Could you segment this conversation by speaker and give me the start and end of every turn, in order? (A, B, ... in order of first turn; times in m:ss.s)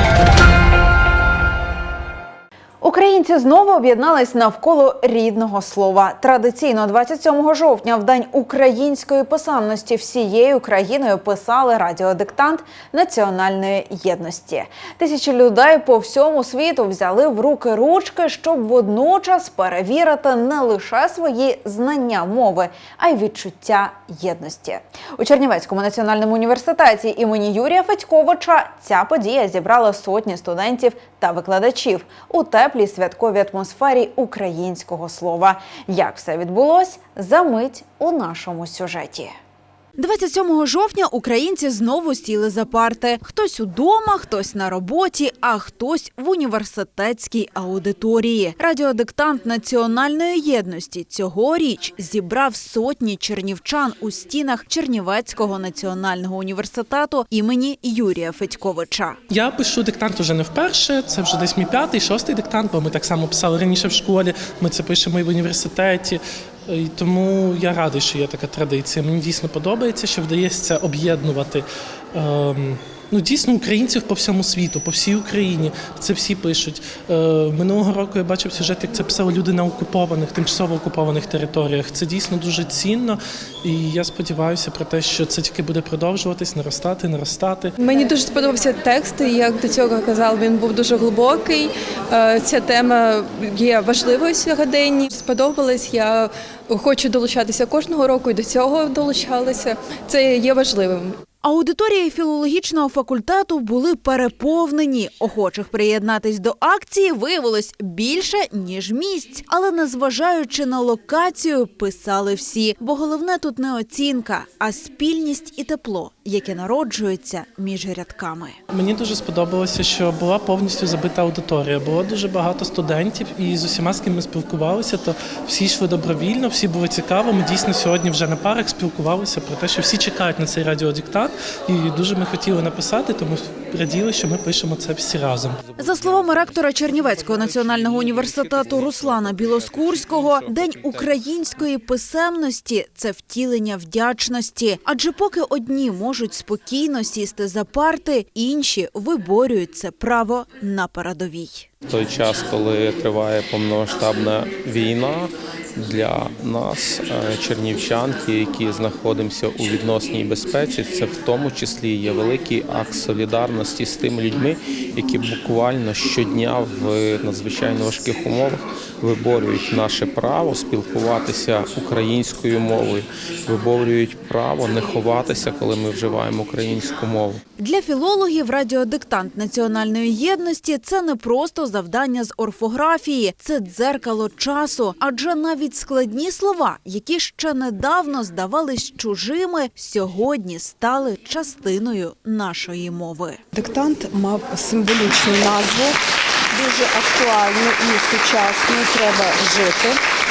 0:02.8-0:39.3 A
0:40.0-0:59.2 A
0:59.3-1:27.7 B
1:27.8-1:41.2 C
1:41.4-1:58.6 A
1:58.7-2:15.6 B
2:15.8-2:31.7 A
2:31.9-2:57.4 D
2:57.6-3:13.4 A
3:13.5-3:16.0 E
3:16.5-3:20.0 E